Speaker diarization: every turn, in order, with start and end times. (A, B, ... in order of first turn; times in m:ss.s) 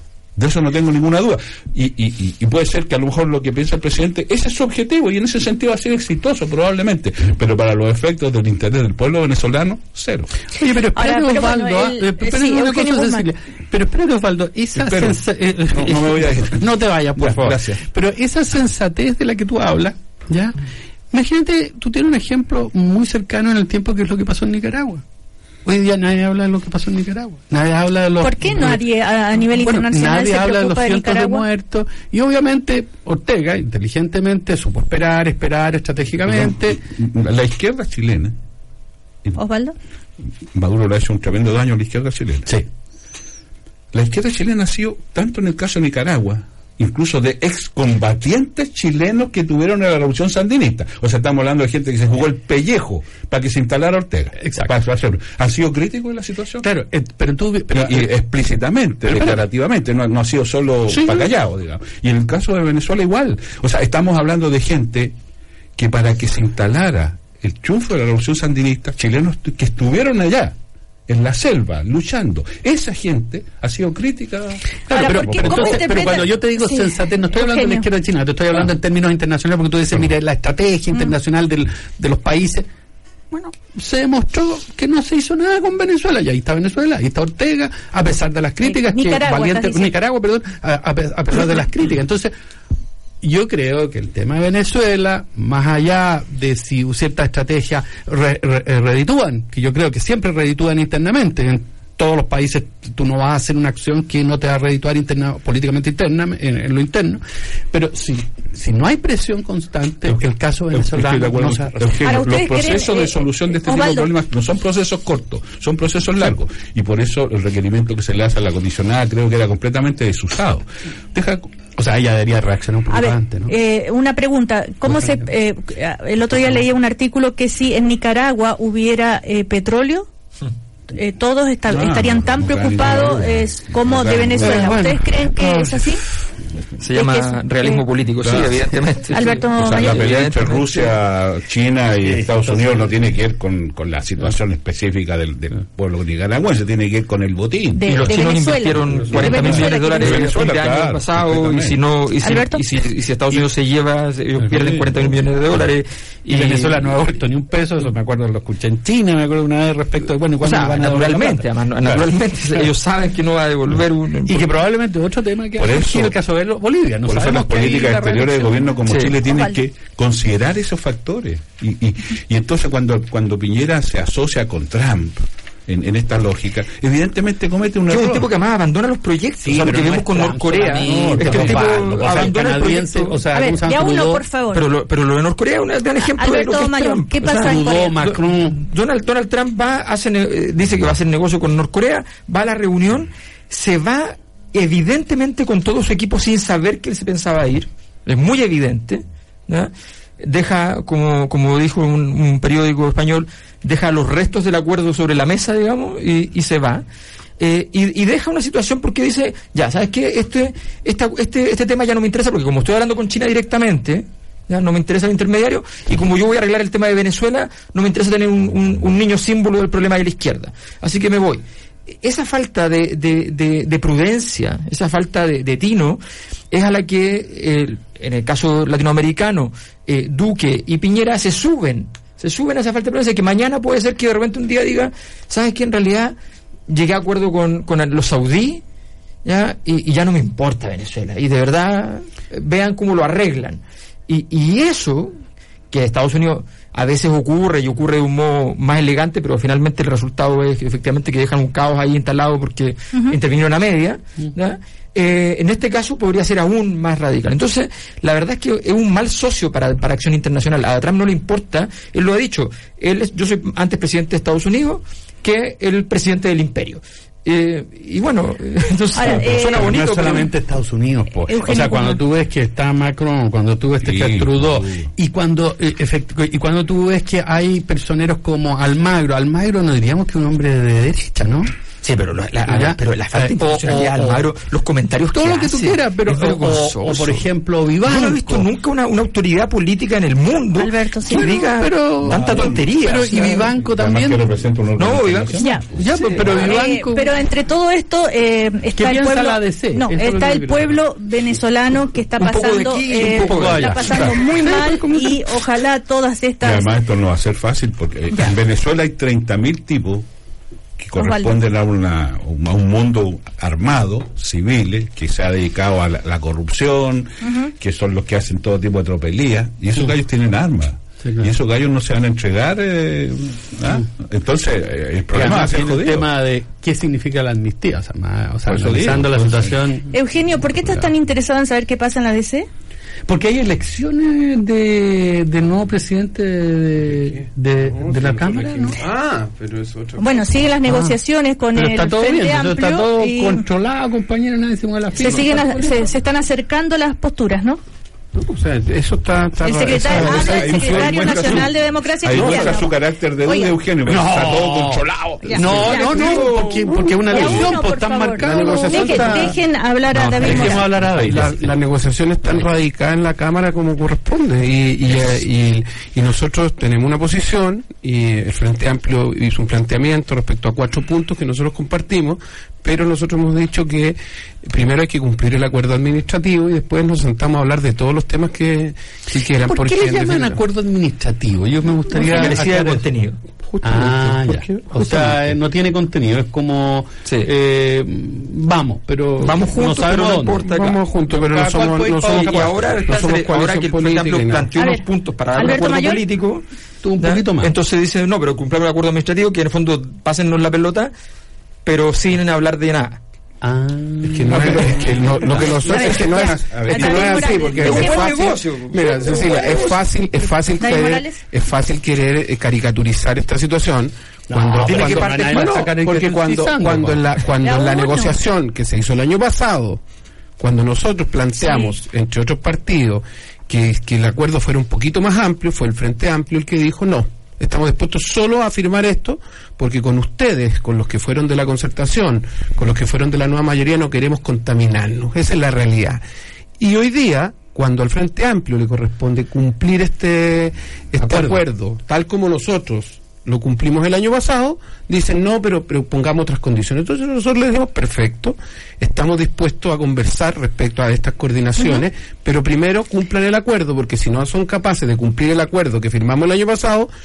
0:00.4-0:10.3 A
0:10.6-0:20.5 B
0:10.9-0:13.3 C
0:14.7-0:15.2 A
0:15.7-0:17.8 A
0:21.1-0:25.0 B
0:25.6-0:28.8 B
0:28.2-0:31.4 C
0:29.5-0:36.8 B
0:36.2-0:38.3 A
0:39.4-0:39.8 C
0:40.5-0:42.5 A
0:43.9-0:56.6 A
0:54.4-0:54.8 B
0:56.6-0:58.1 B
0:57.7-1:05.1 A
0:59.0-0:59.4 B
1:00.9-1:01.3 B
1:05.8-1:10.6 A
1:11.1-1:16.2 A
1:14.9-1:22.7 B
1:14.9-1:17.8 C
1:23.7-1:32.3 B
1:28.6-1:29.9 C
1:33.2-1:52.1 B
1:50.0-2:01.5 A
1:52.0-1:54.1 C
2:01.7-2:03.5 B
2:02.9-2:10.1 C
2:04.8-2:05.3 B
2:10.9-2:16.0 C
2:11.7-2:14.8 A
2:14.4-2:15.9 B
2:16.8-2:20.9 D
2:16.9-2:17.8 C
2:18.2-2:18.7 A
2:19.1-2:20.1 C
2:19.6-2:27.8 A
2:22.0-2:22.9 B
2:27.7-2:30.2 C
2:27.8-2:36.9 D
2:29.2-2:31.8 A
2:32.2-2:32.6 C
2:34.5-2:34.9 B
2:36.3-2:42.0 B
2:40.4-2:44.6 D
2:44.2-2:48.7 B
2:45.6-2:46.1 A
2:47.0-2:58.3 A
2:48.8-2:49.2 D
2:49.2-2:49.6 C
2:57.9-3:03.2 D
2:59.4-3:04.2 B
3:00.8-3:02.3 A
3:03.3-3:04.7 C
3:04.5-3:26.8 D
3:06.0-3:08.0 C
3:07.2-3:08.6 B
3:27.4-3:56.2 D
3:56.7-3:58.6 D
3:59.2-4:05.2 D
4:05.7-4:30.3 D
4:28.9-4:29.7 C
4:29.1-4:41.5 B
4:29.6-4:30.3 A
4:31.2-4:32.0 C
4:33.8-4:34.9 A
4:41.8-4:47.3 D
4:42.4-4:44.3 B
4:45.1-4:48.5 B
4:47.8-4:53.5 D
4:50.5-4:51.4 C
4:51.1-4:54.2 B
4:53.6-4:56.2 A
4:54.8-4:56.4 D
4:55.4-4:55.6 C
4:55.8-4:57.1 B
4:56.2-5:06.8 C
4:58.8-5:00.8 B
5:02.2-5:04.2 D
5:03.0-5:05.2 B
5:06.4-5:10.0 A
5:10.8-5:26.1 A
5:11.0-5:11.3 C
5:17.2-5:17.5 C
5:21.0-5:21.3 B
5:25.1-5:30.9 B
5:28.5-5:29.6 A
5:29.9-5:32.5 C
5:33.0-5:38.8 B
5:36.9-5:40.4 E
5:40.0-5:43.4 C
5:40.6-5:41.0 B
5:41.5-5:45.9 B
5:45.0-5:47.6 C
5:48.1-5:51.5 E
5:49.4-5:52.7 C
5:49.8-5:55.7 A
5:52.1-5:52.6 E
5:53.2-5:53.5 C
5:53.8-5:59.4 B
5:55.2-5:56.3 C
5:55.3-5:57.6 E
5:57.1-6:00.7 C
5:58.2-5:59.4 E
5:59.9-6:01.5 B
6:00.0-6:20.4 E
6:19.3-6:22.8 B
6:22.0-6:23.2 D
6:23.4-6:25.2 E
6:23.6-6:30.5 B
6:27.0-6:27.3 D
6:29.2-6:30.8 D
6:30.5-6:34.5 E
6:31.1-6:32.6 B
6:32.0-6:36.4 D
6:34.6-6:36.0 C
6:36.8-6:37.5 B
6:37.0-6:40.9 D
6:41.6-6:43.0 D
6:43.4-6:45.9 B
6:44.0-6:59.8 E
6:44.3-6:47.9 A
6:45.7-6:48.0 C
6:47.6-6:49.8 D
6:50.6-6:51.2 C
6:54.3-6:57.2 B
6:54.6-6:55.7 D
6:57.4-6:58.2 C
7:00.4-7:16.0 E
7:01.4-7:01.7 C
7:16.6-7:36.9 E
7:21.0-7:21.4 B